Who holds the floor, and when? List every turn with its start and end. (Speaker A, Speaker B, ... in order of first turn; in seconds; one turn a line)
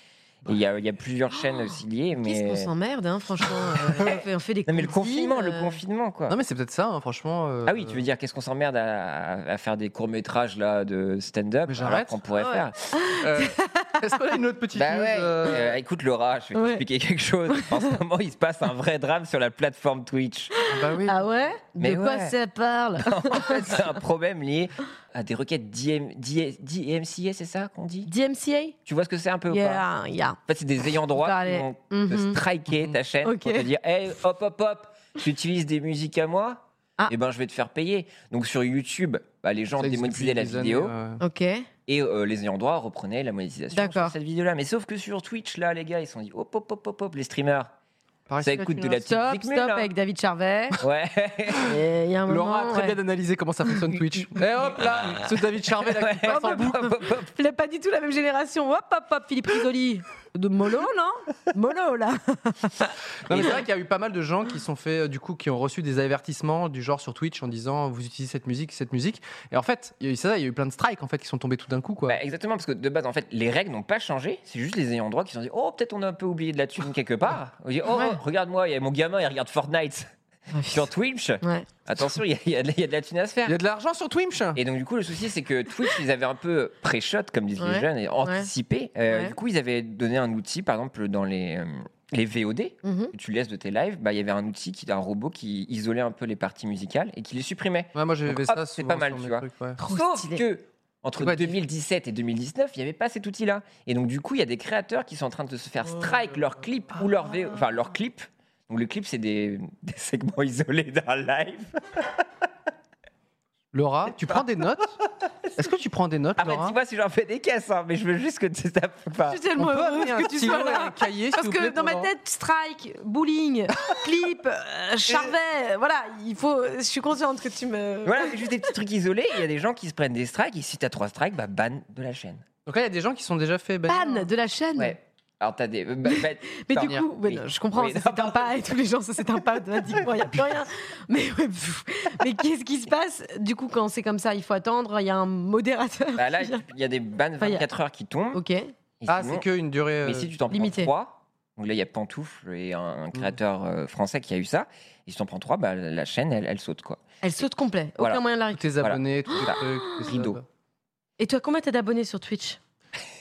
Speaker A: 0.5-2.7
Speaker B: 2.2-5.8
Speaker A: 3.8-6.4
Speaker C: 6.3-8.0
Speaker A: 7.7-12.9
Speaker C: 11.7-12.2
Speaker B: 12.4-14.0
Speaker C: 13.2-15.8
Speaker A: 14.8-20.5
Speaker B: 16.6-16.8
Speaker B: 17.5-17.8
Speaker B: 20.6-23.7
Speaker C: 20.7-21.2
Speaker A: 21.8-22.3
Speaker A: 23.0-28.1
Speaker B: 28.1-28.8
Speaker A: 28.9-29.8
Speaker B: 29.5-30.4
Speaker A: 30.5-40.9
Speaker B: 31.1-32.4
Speaker B: 33.2-33.6
Speaker C: 39.8-41.2
Speaker B: 41.2-41.7
Speaker A: 41.9-47.7
Speaker B: 43.7-44.1
Speaker C: 48.3-49.0
Speaker A: 48.4-49.9
Speaker B: 49.0-50.8
Speaker A: 50.8-51.7
Speaker B: 51.6-53.0
Speaker C: 52.3-56.9
Speaker A: 56.0-57.3
Speaker B: 56.3-62.9
Speaker C: 63.3-72.2
Speaker A: 72.1-80.1
Speaker B: 77.9-78.2
Speaker B: 80.5-80.9
Speaker A: 80.7-83.6
Speaker B: 81.4-81.7
Speaker C: 83.5-84.6
Speaker A: 84.5-112.1
Speaker B: 87.6-88.5
Speaker B: 92.8-93.1
Speaker C: 98.0-99.8
Speaker B: 99.8-100.4
Speaker C: 101.2-101.5
Speaker C: 113.7-115.0
Speaker C: 115.6-116.8
Speaker A: 116.4-119.4
Speaker B: 119.3-128.5
Speaker C: 119.6-122.1
Speaker A: 128.1-132.4
Speaker C: 132.7-134.3
Speaker B: 133.9-135.0
Speaker A: 134.8-138.7
Speaker B: 136.1-146.6
Speaker A: 146.2-148.4
Speaker B: 148.3-148.7
Speaker A: 149.0-149.4
Speaker C: 149.1-150.3
Speaker A: 150.0-157.0
Speaker B: 150.5-150.9
Speaker B: 157.2-158.7
Speaker C: 158.5-160.4
Speaker A: 158.8-160.4
Speaker B: 159.3-160.1
Speaker B: 161.2-162.6